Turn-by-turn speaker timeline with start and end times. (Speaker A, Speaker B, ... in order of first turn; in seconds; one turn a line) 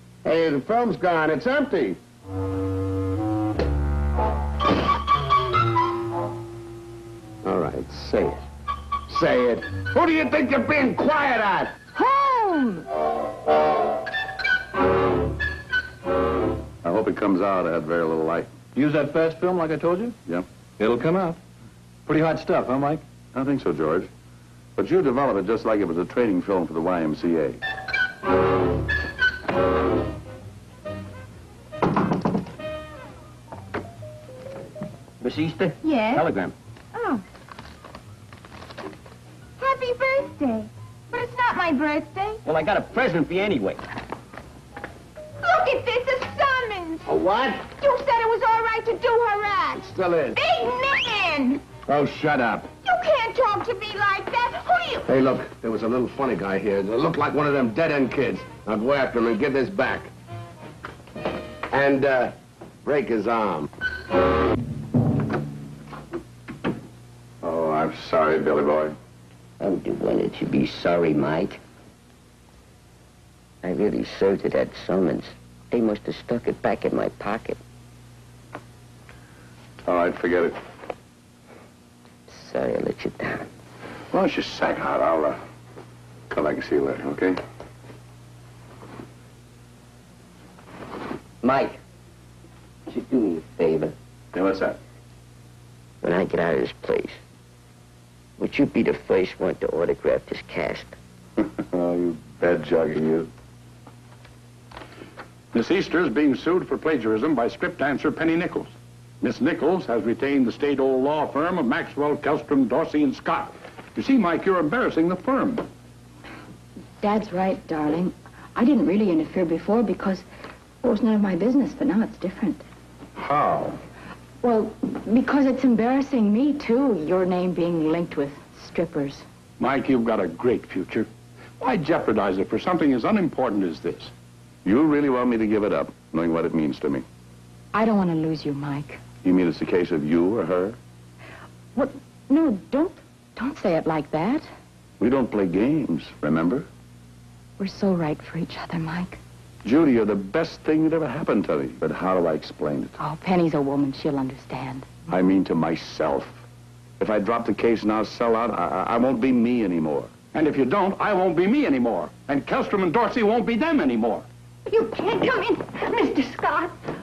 Speaker A: 0.2-2.0
Speaker A: 7.4-8.4
Speaker A: 9.1-11.7
Speaker B: 11.9-12.8
Speaker C: 16.8-18.5
Speaker D: 18.7-20.1
Speaker D: 20.8-21.4
Speaker D: 22.1-23.0
Speaker C: 23.3-24.1
Speaker C: 24.8-27.6
Speaker E: 35.2-36.5
Speaker B: 35.8-36.2
Speaker B: 36.9-37.2
Speaker B: 39.6-42.4
Speaker E: 42.4-43.8
Speaker B: 45.4-47.1
Speaker A: 47.0-47.7
Speaker B: 47.7-49.8
Speaker A: 49.7-50.4
Speaker B: 50.3-51.6
Speaker A: 51.8-52.7
Speaker B: 52.8-55.1
Speaker A: 55.0-60.1
Speaker A: 61.7-63.7
Speaker C: 67.4-68.9
Speaker E: 69.6-71.6
Speaker E: 73.6-77.6
Speaker C: 79.8-80.6
Speaker E: 82.3-83.5
Speaker F: 84.1-85.3
Speaker C: 86.3-87.4
Speaker E: 91.4-91.8
Speaker E: 92.9-93.9
Speaker C: 94.3-94.8
Speaker E: 96.0-97.2
Speaker E: 98.4-100.9
Speaker C: 101.4-103.3
Speaker F: 105.5-115.7
Speaker G: 117.0-120.2
Speaker G: 120.8-122.6
Speaker C: 123.2-123.8
Speaker G: 124.4-129.2
Speaker F: 129.6-131.1
Speaker F: 131.6-134.1
Speaker C: 134.6-137.0
Speaker G: 137.7-139.0
Speaker C: 139.2-140.8
Speaker G: 141.8-144.5
Speaker C: 145.0-146.7
Speaker G: 147.6-149.2
Speaker C: 149.6-152.9
Speaker G: 153.0-154.9
Speaker C: 155.1-156.4
Speaker C: 157.0-160.1
Speaker F: 160.3-164.2
Speaker B: 164.7-166.7